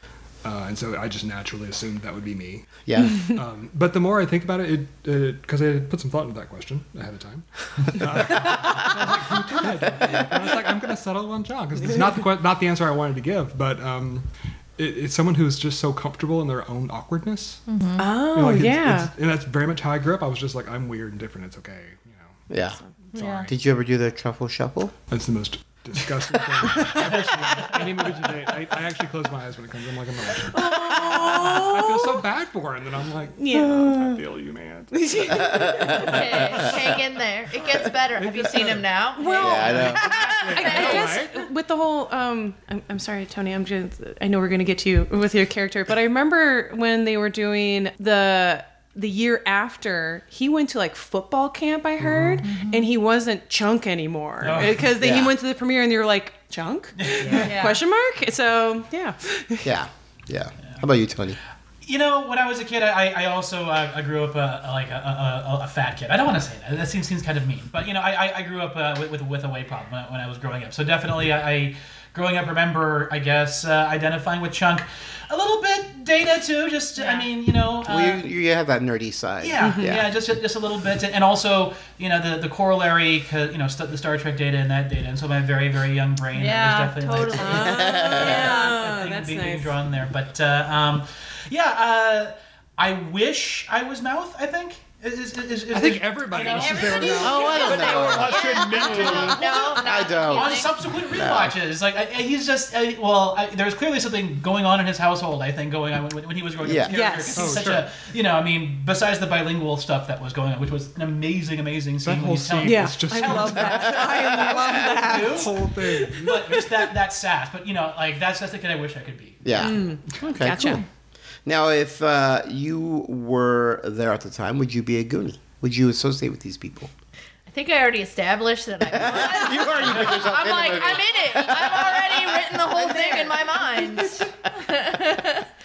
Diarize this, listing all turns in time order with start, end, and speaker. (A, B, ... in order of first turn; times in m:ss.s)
0:00.4-0:17.6 A
0:02.8-0:03.3 B
0:17.7-0:18.1 C
0:18.0-0:19.1 D
0:18.3-0:22.5 A
0:22.5-0:22.8 B
0:23.1-0:23.5 C
0:23.1-0:23.5 A
0:23.4-0:24.9 B
0:25.1-0:35.7 A
0:26.7-0:26.9 D
0:30.5-0:32.2 D
0:33.4-0:34.2 D
0:34.9-0:36.7 D
0:35.3-0:36.4 B
0:36.0-0:41.1 C
0:36.4-0:36.7 A
0:38.1-0:38.9 A
0:39.2-0:59.7 D
0:39.4-0:40.0 B
0:39.6-0:41.5 A
0:40.0-0:40.8 E
0:52.0-0:52.4 A
0:52.4-0:52.9 C
0:54.4-0:54.8 E
0:55.0-0:55.3 B
0:57.0-0:57.5 E
0:57.2-0:57.6 A
0:57.4-0:57.8 C
0:59.6-1:01.4 B
1:01.8-1:18.2 E
1:17.0-1:17.3 C
1:17.8-1:20.1 B
1:19.4-1:37.5 E
1:19.6-1:19.9 D
1:26.3-1:28.9 C
1:27.3-1:29.7 D
1:27.5-1:28.6 B
1:35.7-1:39.8 A
1:36.4-1:40.7 C
1:37.2-1:41.5 B
1:39.1-1:39.4 E
1:40.2-1:55.5 E
1:46.6-1:46.9 B
1:46.9-1:47.6 D
1:47.3-1:47.9 A
1:52.0-1:54.0 A
1:52.6-1:56.8 D
1:53.8-1:54.8 B
1:55.0-1:56.4 A
1:56.1-1:59.7 E
1:59.4-2:00.8 B
1:59.5-2:00.8 D
2:01.4-2:06.9 B
2:07.5-2:15.5 C
2:08.8-2:13.4 B
2:13.0-2:14.0 D